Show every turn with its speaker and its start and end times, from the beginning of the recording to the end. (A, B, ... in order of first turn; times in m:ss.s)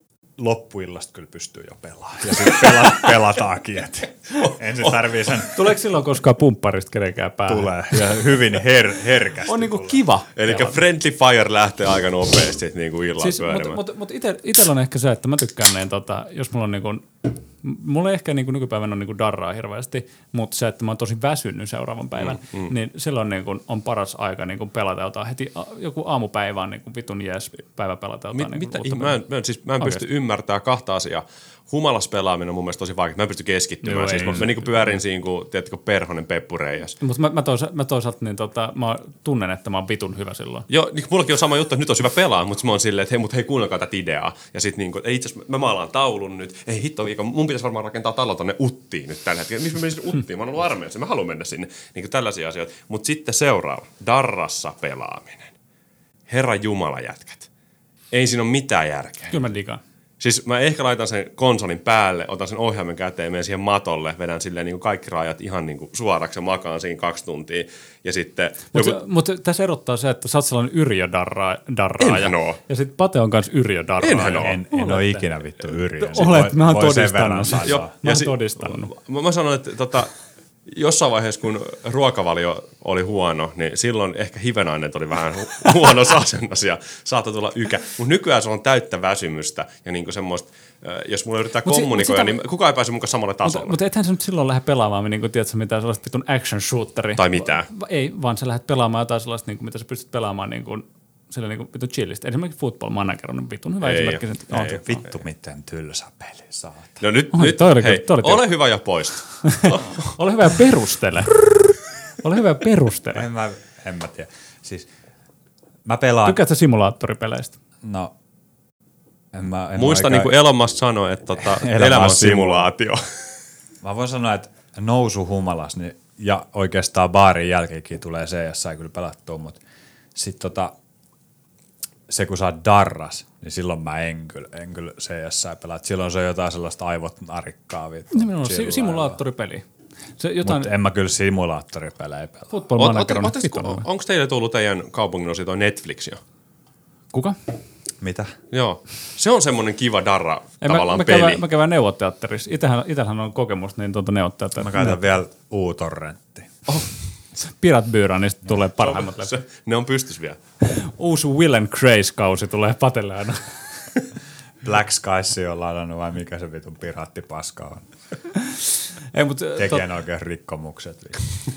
0:00.4-0:05.7 A
0:05.5-0:07.7 B
0:07.5-0:10.0 A
0:09.4-0:10.8 B
0:10.4-0:13.8 C
0:13.2-0:29.2 B
0:22.2-0:22.7 C
0:28.3-0:37.0 C
0:33.8-0:34.7 B
0:37.0-0:40.6 B
0:40.7-0:55.5 C
0:56.3-0:57.5 C
0:58.1-0:59.4 C
0:59.3-0:59.8 B
1:00.2-1:09.0 C
1:08.7-1:15.3 B
1:12.0-1:12.6 C
1:14.0-1:14.5 C
1:14.4-1:17.9 A
1:16.0-1:18.9 B
1:17.6-1:20.1 C
1:20.6-1:33.8 C
1:31.6-1:32.4 B
1:33.4-1:45.0 B
1:37.2-1:37.7 C
1:43.8-1:44.7 C
1:44.5-1:47.0 A
1:47.0-1:50.2 C
1:47.3-1:48.4 B
1:49.4-1:51.6 B
1:52.2-1:53.2 B
1:53.1-1:54.9 A
1:55.8-1:56.4 A
1:56.2-1:57.5 B
1:57.8-1:58.1 A
1:59.3-2:00.3 A
1:59.8-2:03.0 C
2:01.4-2:02.7 A
2:03.8-2:09.6 A
2:10.1-2:10.7 A
2:12.1-2:19.2 A
2:18.1-2:19.6 B
2:20.2-2:20.7 B
2:20.4-2:22.5 A
2:22.5-2:23.8 B
2:22.8-2:26.2 C
2:28.0-2:28.3 A
2:28.5-2:31.4 C
2:30.6-2:35.0 B
2:34.6-2:36.6 A
2:37.4-2:39.4 B
2:38.8-2:40.4 C
2:40.6-2:43.6 B
2:44.6-2:47.9 A
2:48.4-2:48.6 B
2:49.1-2:49.8 B
2:49.6-2:51.2 A